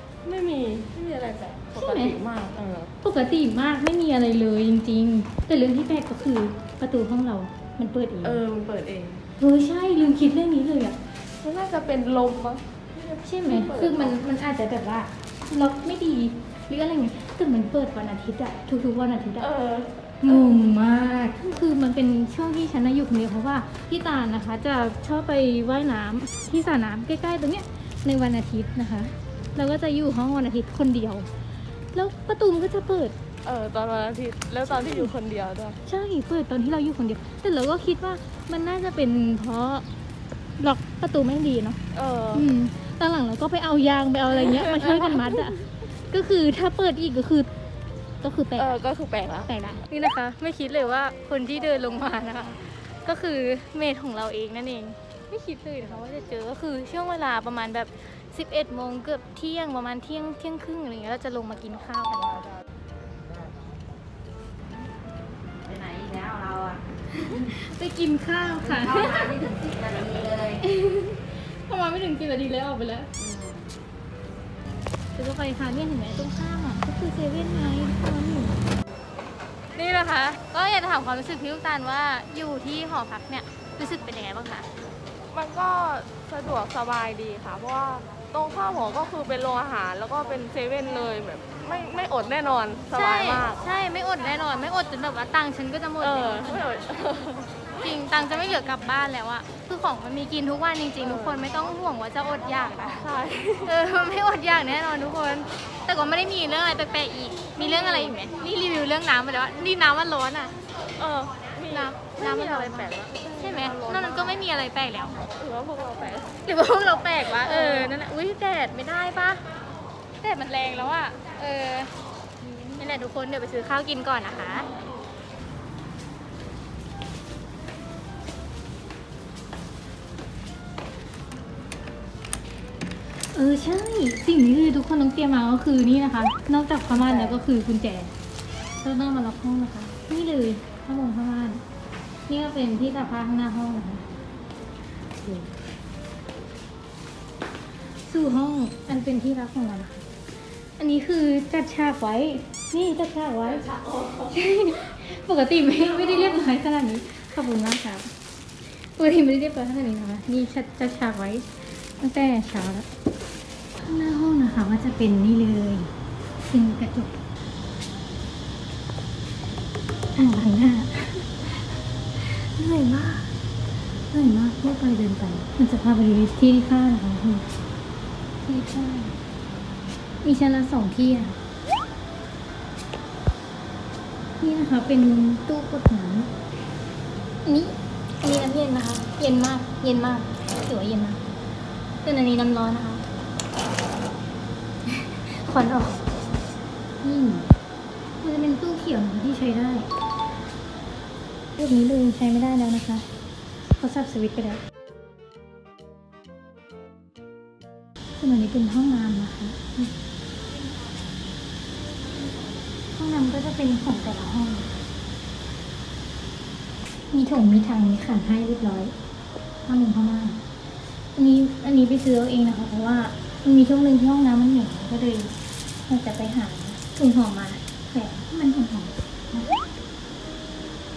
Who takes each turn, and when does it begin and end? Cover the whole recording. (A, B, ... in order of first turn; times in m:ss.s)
0:00.2-0:02.9 A
0:01.8-0:02.1 B
0:03.0-0:08.4 B
0:08.2-0:09.2 A
0:09.4-0:11.0 B
0:11.4-0:14.2 A
0:13.2-0:19.5 B
0:19.4-0:20.5 A
0:20.2-0:31.3 B
0:31.9-0:33.1 B
0:33.4-0:35.8 A
0:34.7-0:35.1 B
0:35.8-0:39.8 B
0:40.6-0:41.8 B
0:41.9-0:42.5 A
0:42.3-0:47.5 B
0:44.3-0:45.6 A
0:48.2-0:48.8 B
0:48.6-0:49.5 A
0:49.4-1:02.5 B
1:05.6-1:07.5 C
1:07.2-1:09.3 B
1:08.6-1:10.6 C
1:10.6-1:13.1 B
1:13.2-1:13.6 C
1:15.1-1:18.6 B
1:19.7-1:24.7 B
1:25.3-1:33.6 A
1:32.9-1:36.7 B
1:36.0-1:37.5 A
1:37.8-1:43.0 B
1:41.0-1:41.4 A
1:43.0-1:43.7 A
1:43.6-1:50.5 B
1:47.6-1:48.2 A
1:51.0-1:54.4 A
1:51.7-1:55.2 B
1:55.2-1:56.4 A
1:56.4-1:59.4 B
1:57.4-1:57.9 A
2:00.2-2:01.9 B
2:02.4-2:04.7 B
2:13.3-2:18.1 B
2:16.9-2:17.4 A
2:18.8-2:21.6 B
2:22.3-2:24.0 B
2:25.1-2:25.5 B
2:28.0-2:30.1 B
2:30.8-2:33.7 B
2:34.2-2:38.1 B
2:38.7-2:42.9 B
2:43.8-2:47.2 B
2:50.1-2:53.3 B
2:54.1-2:57.4 B
2:58.4-2:59.2 B
3:00.2-3:01.4 B
3:04.4-3:06.3 B
3:07.4-3:11.2 B
3:12.0-3:13.0 B
3:14.9-3:16.0 B
3:17.0-3:17.5 B
3:18.2-3:19.9 B
3:21.6-3:23.1 B
3:23.7-3:24.6 B
3:28.2-3:29.9 B
3:32.9-3:34.7 B
3:37.1-3:38.9 B
3:39.6-3:40.4 B
3:41.2-3:45.3 B
3:45.9-3:49.6 B